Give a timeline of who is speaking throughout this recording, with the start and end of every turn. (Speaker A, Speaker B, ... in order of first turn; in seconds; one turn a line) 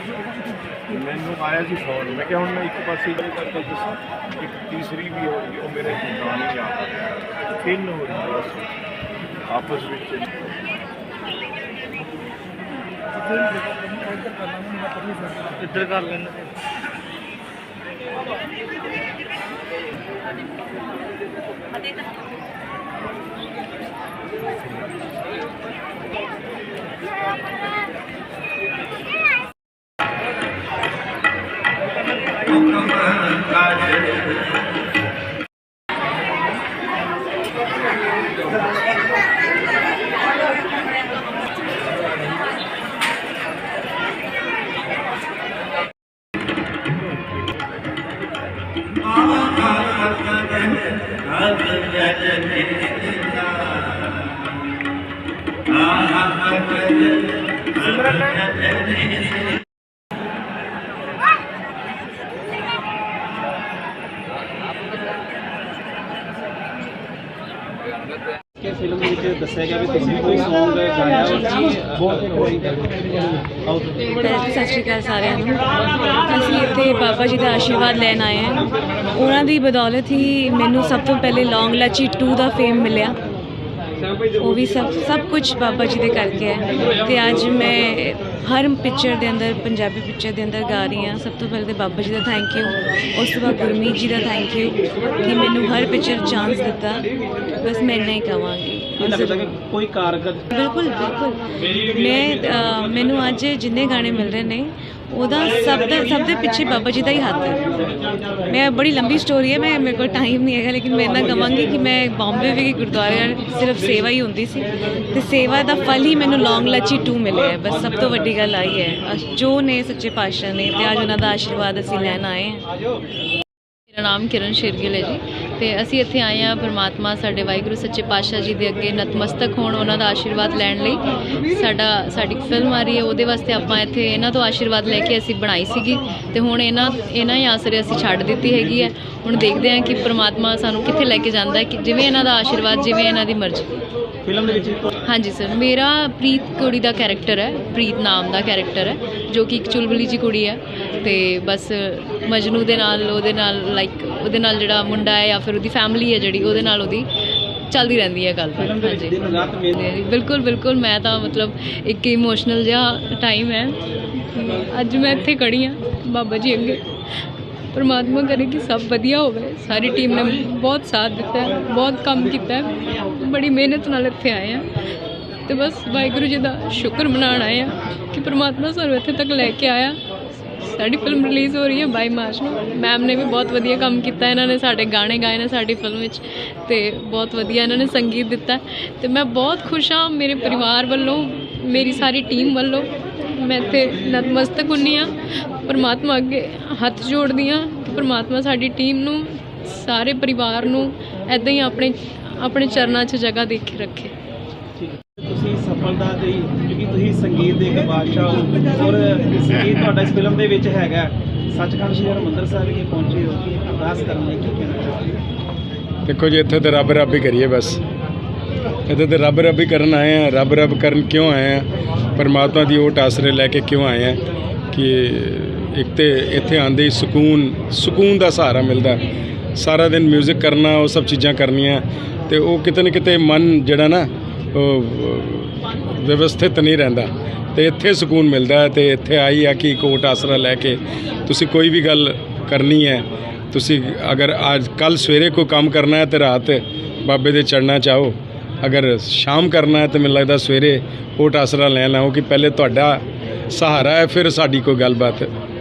Speaker A: 0.9-6.9
Speaker A: 7.6-8.7
Speaker A: 9.5-10.3
Speaker A: 15.7-16.2
Speaker B: 68.6-74.2
Speaker C: 74.2-83.2
Speaker C: 84.4-99.4
Speaker B: 99.0-100.5
Speaker C: 100.5-107.8
Speaker C: 108.5-122.6
Speaker D: 123.9-143.7
Speaker B: 144.2-144.9
Speaker D: 145.1-157.1
Speaker D: 157.7-159.2
Speaker B: 158.6-159.8
Speaker D: 159.7-163.8
Speaker D: 164.3-166.8
Speaker D: 167.7-174.7
Speaker D: 175.5-180.0
Speaker D: 180.6-204.1
Speaker B: 204.8-215.2
Speaker E: 216.1-217.8
Speaker E: 218.9-224.2
Speaker E: 224.7-229.0
Speaker E: 229.6-255.3